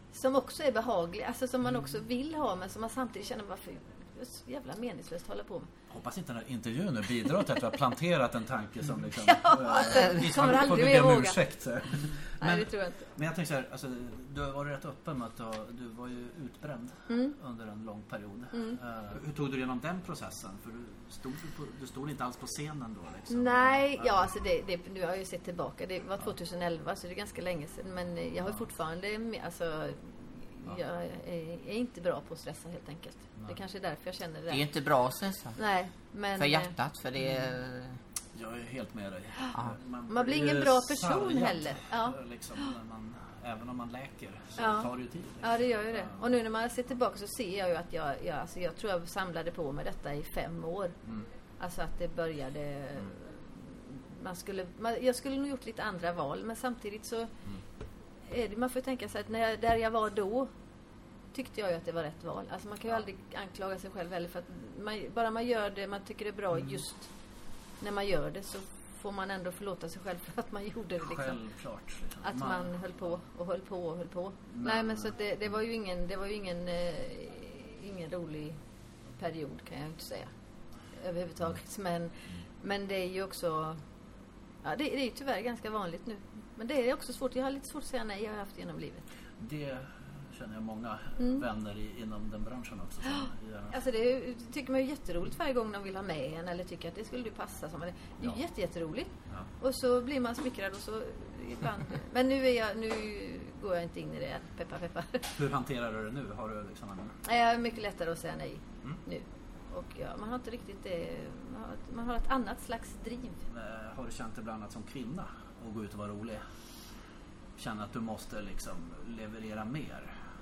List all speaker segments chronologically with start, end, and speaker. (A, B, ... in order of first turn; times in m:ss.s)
0:00.1-0:05.7 A
0:05.9-0:24.2 B
0:09.2-0:11.4 A
0:09.9-0:10.2 C
0:12.4-0:13.1 A
0:17.1-0:17.4 A
0:18.5-0:18.8 A
0:23.3-0:34.7 A
0:34.5-0:35.6 C
0:35.6-0:36.7 A
0:36.4-0:38.0 C
0:38.3-0:46.2 B
0:40.1-0:42.2 A
0:44.6-0:44.9 A
0:45.4-0:51.0 A
0:51.6-0:57.3 A
0:58.3-1:00.5 A
1:01.3-1:07.1 A
1:07.8-1:11.4 A
1:11.0-1:12.7 B
1:12.2-1:18.6 A
1:14.5-1:15.1 B
1:19.1-1:20.3 A
1:20.9-1:23.8 A
1:24.6-1:29.0 A
1:29.4-1:33.7 B
1:31.2-1:31.4 A
1:33.0-1:45.3 A
1:45.4-1:47.2 B
1:47.2-1:53.4 A
1:53.5-1:56.4 B
1:57.6-2:00.1 B